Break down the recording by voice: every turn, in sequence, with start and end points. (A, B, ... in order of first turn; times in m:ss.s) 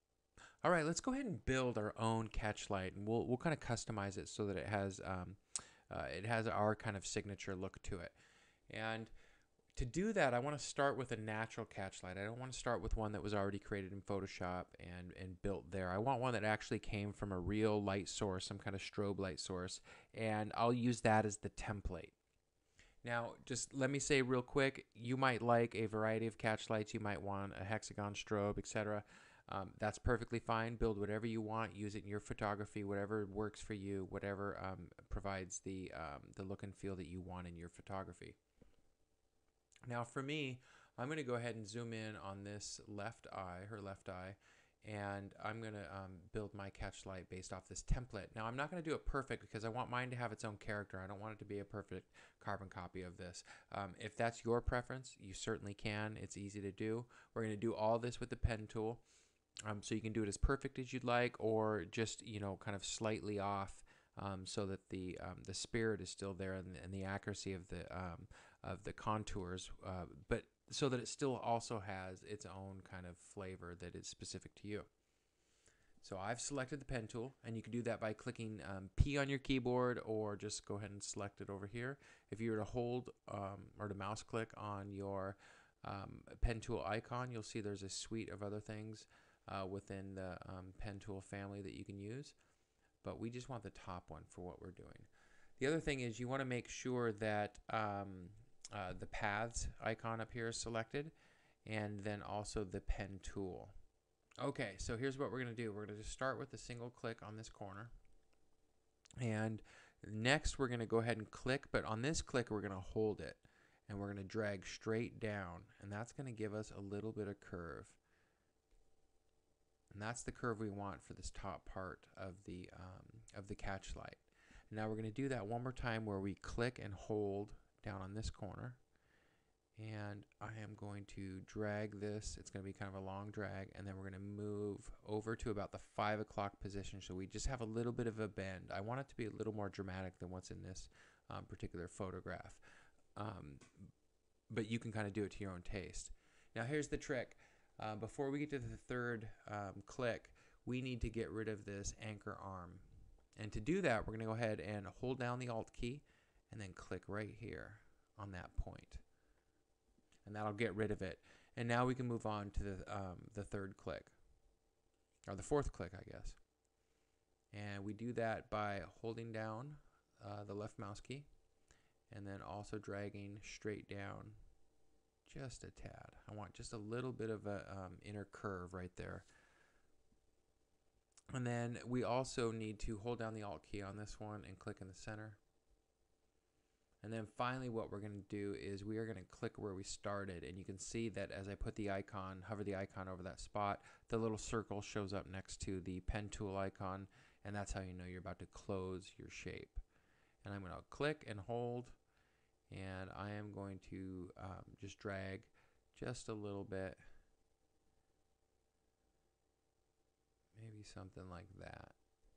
0:00.6-0:08.1 A
0:08.7-0:09.1 A
0:09.7-0:22.1 A
0:23.0-0:38.4 A
0:39.8-0:59.0 A
0:59.6-1:14.9 A
1:16.0-1:32.4 A
1:33.0-1:41.1 A
1:41.6-1:43.7 A
1:44.4-1:47.9 A
1:49.2-1:58.0 A
1:59.9-2:08.8 A
2:09.8-2:22.6 A
2:23.1-2:23.9 A
2:24.5-2:32.8 A
2:33.4-2:39.0 A
2:40.2-2:44.1 A
2:45.3-2:46.4 A
2:47.5-2:51.3 A
2:52.1-2:54.4 A
2:55.2-2:59.2 A
3:01.3-3:05.4 A
3:07.0-3:19.8 A
3:20.4-3:22.0 A
3:22.7-3:27.0 A
3:30.5-3:32.0 A